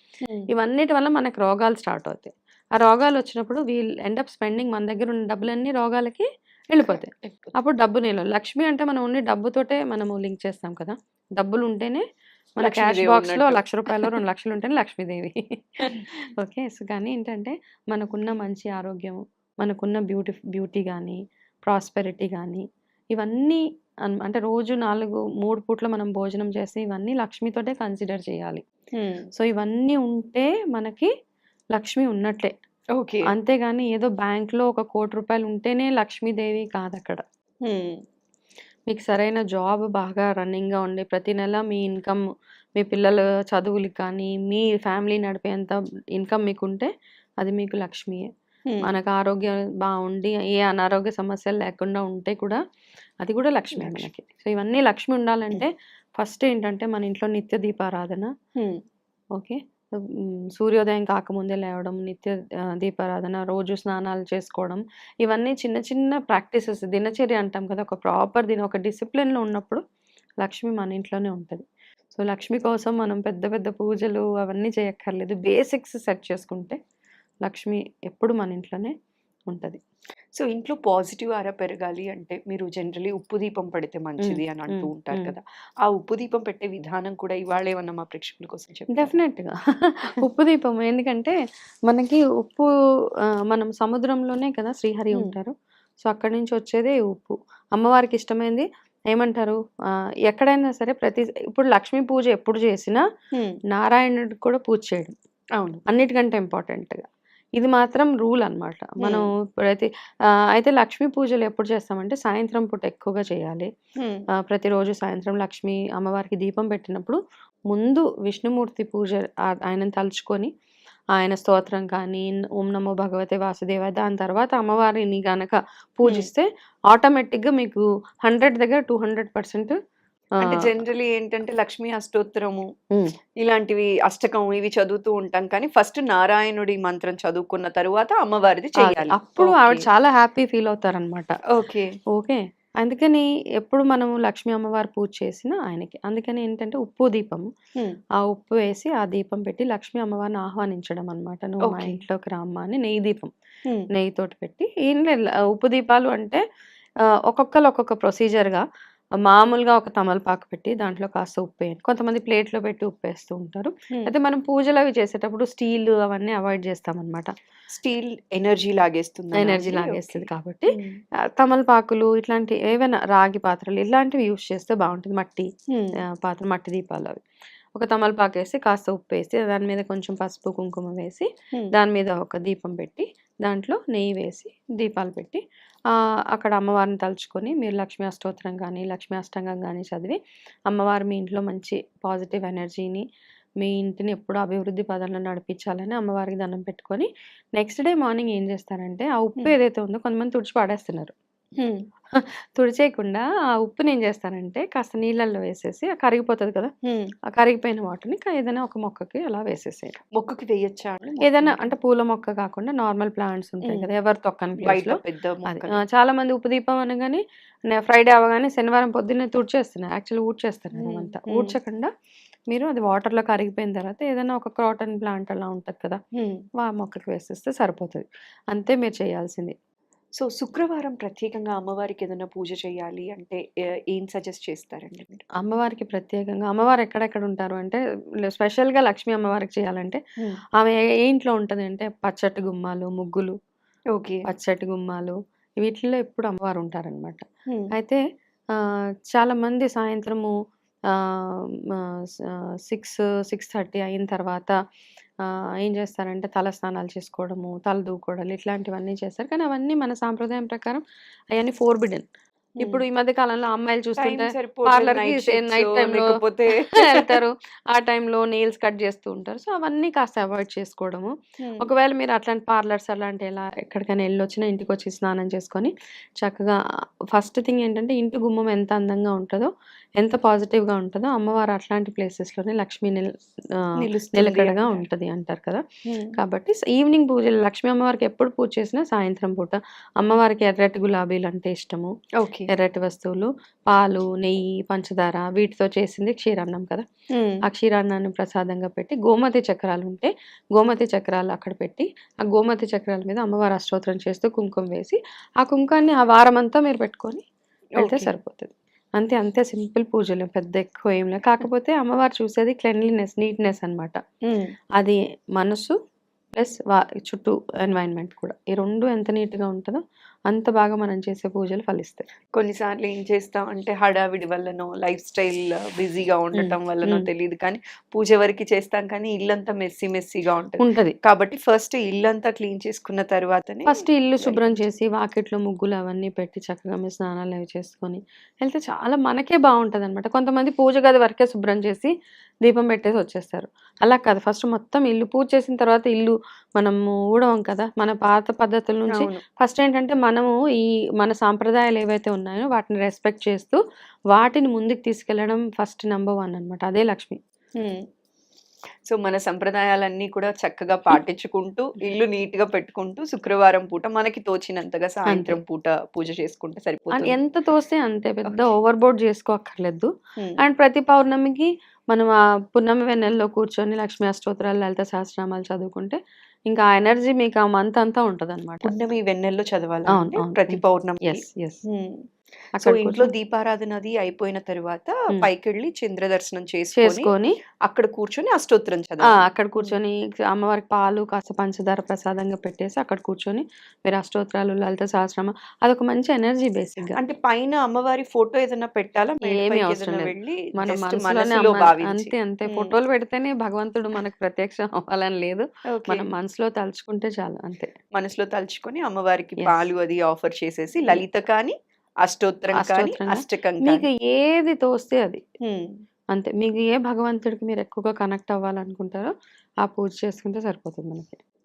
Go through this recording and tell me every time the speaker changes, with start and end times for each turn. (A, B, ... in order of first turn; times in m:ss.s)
0:00.2-0:00.5 A
0:00.5-0:12.0 B
0:06.8-0:07.5 A
0:12.6-0:22.6 B
0:12.6-0:14.1 A
0:23.1-0:28.6 B
0:28.9-0:29.3 A
0:29.4-0:31.1 B
0:31.7-0:32.5 B
0:33.0-0:33.3 A
0:33.3-0:37.2 B
0:37.6-0:38.0 A
0:38.9-0:42.2 B
0:42.8-0:48.3 B
0:48.8-0:52.6 B
0:53.2-0:58.3 B
0:53.8-0:54.1 A
0:59.4-1:09.8 B
1:10.4-1:16.8 B
1:17.4-1:18.9 B
1:19.5-1:19.8 B
1:20.4-1:29.1 A
1:24.2-1:25.3 B
1:28.9-1:31.3 B
1:31.9-1:32.7 B
1:33.5-1:39.6 B
1:40.3-1:43.0 B
1:43.7-1:45.1 B
1:45.9-1:47.0 B
1:47.6-1:49.9 B
1:49.0-1:49.3 A
1:50.5-1:53.7 B
1:54.0-1:54.2 A
1:54.4-1:57.2 B
1:57.7-2:00.5 B
2:01.2-2:09.8 B
2:10.4-2:10.7 B
2:10.4-2:12.7 A
2:13.4-2:19.8 A
2:18.8-2:21.3 B
2:21.5-2:21.9 A
2:22.1-2:27.5 B
2:28.2-2:33.3 B
2:31.6-2:32.0 A
2:33.9-2:36.4 B
2:37.1-2:38.6 B
2:39.2-2:47.3 B
2:47.7-2:51.0 A
2:49.3-2:50.8 B
2:51.4-2:55.5 B
2:55.7-2:56.0 A
2:56.2-2:57.2 B
2:57.8-3:10.2 B
3:10.7-3:13.0 B
3:13.6-3:21.1 B
3:22.1-3:26.7 B
3:26.8-3:27.1 A
3:27.3-3:30.0 B
3:30.1-3:31.7 A
3:31.2-3:41.9 B
3:34.6-3:35.8 A
3:40.8-3:41.5 A
3:42.5-3:46.0 B
3:46.2-3:46.4 A
3:46.6-3:49.5 B
3:50.2-3:55.2 A
3:55.4-4:00.0 B
4:00.6-4:03.3 B
4:03.9-4:04.2 A
4:04.3-4:08.0 B
4:08.5-4:10.3 B
4:10.9-4:14.5 B
4:15.2-4:22.1 B
4:22.6-4:26.2 B
4:24.0-4:27.2 A
4:26.7-4:36.6 B
4:31.4-4:31.7 A
4:37.1-4:43.1 B
4:43.8-4:44.8 A
4:44.1-4:45.6 B
4:45.9-4:46.1 A
4:46.2-4:51.9 B
4:52.2-4:52.5 A
4:52.5-4:56.8 B
4:57.1-4:57.4 A
4:57.5-5:07.2 B
5:07.8-5:08.1 A
5:07.8-5:14.0 B
5:14.8-5:15.7 B
5:16.4-5:22.1 B
5:22.3-5:34.6 A
5:26.4-5:27.1 B
5:30.6-5:30.9 B
5:33.7-5:41.9 B
5:42.4-5:53.6 B
5:48.9-5:49.2 A
5:54.1-5:57.2 B
5:57.6-5:57.8 A
5:58.9-6:07.2 A
6:05.1-6:05.4 B
6:07.0-6:09.9 B
6:10.4-6:18.8 B
6:18.6-6:22.0 A
6:19.9-6:21.6 B
6:22.6-6:23.1 B
6:22.6-6:27.1 A
6:26.8-6:27.3 B
6:27.6-6:29.7 A
6:29.1-6:37.0 B
6:37.0-6:42.7 A
6:39.2-6:47.7 B
6:45.7-6:46.1 A
6:47.9-6:53.8 A
6:49.4-6:49.7 B
6:52.5-6:55.2 B
6:55.4-6:55.8 A
6:56.1-6:59.1 B
6:59.6-7:01.2 B